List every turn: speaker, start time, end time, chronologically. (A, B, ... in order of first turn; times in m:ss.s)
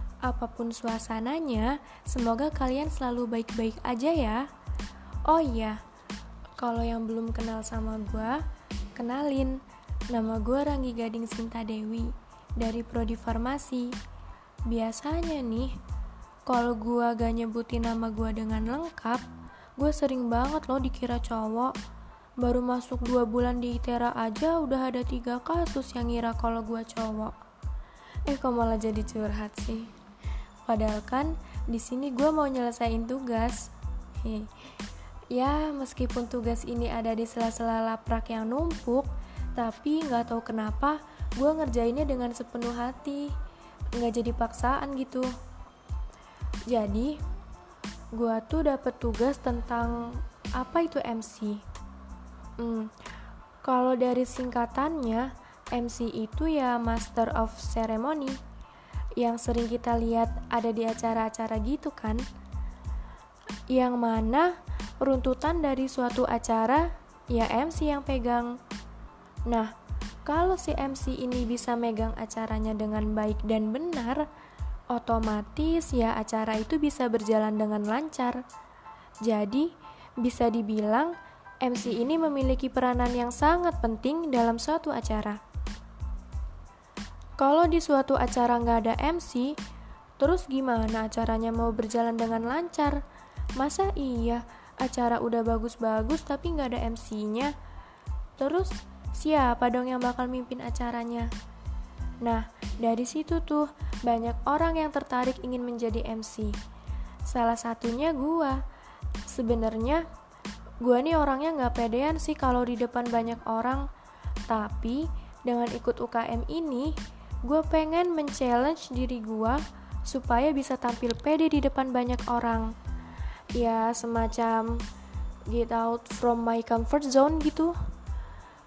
0:00.2-0:04.5 A
0:05.2-0:05.8 A
0:06.6-0:08.4 A
0:08.9-0:14.0 A
0:14.7-0:15.8 A
0:16.4-0:19.2 A
0:19.8-0:21.7 A
0:22.4-0:27.4 A
0:28.2-0:29.9 A
0:30.6-0:34.5 A
0:35.3-0:43.3 A
0:44.0-0:45.3 A
0:46.7-0:47.2 A
0:48.1-0:51.6 A
0:52.6-0:52.9 A
0:53.6-0:58.4 A
0:59.2-1:02.2 A
1:03.7-1:08.6 A
1:09.5-1:09.7 A
1:10.2-1:14.2 A
1:14.9-1:18.4 A
1:19.2-1:25.4 A
1:27.4-1:29.5 A
1:30.2-1:33.0 A
1:33.6-1:37.5 A
1:38.4-1:41.3 A
1:42.2-1:46.6 A
1:47.2-1:48.6 A
1:49.3-1:50.0 A
1:50.8-1:53.8 A
1:54.5-2:02.7 A
2:03.5-2:04.8 A
2:05.5-2:07.8 A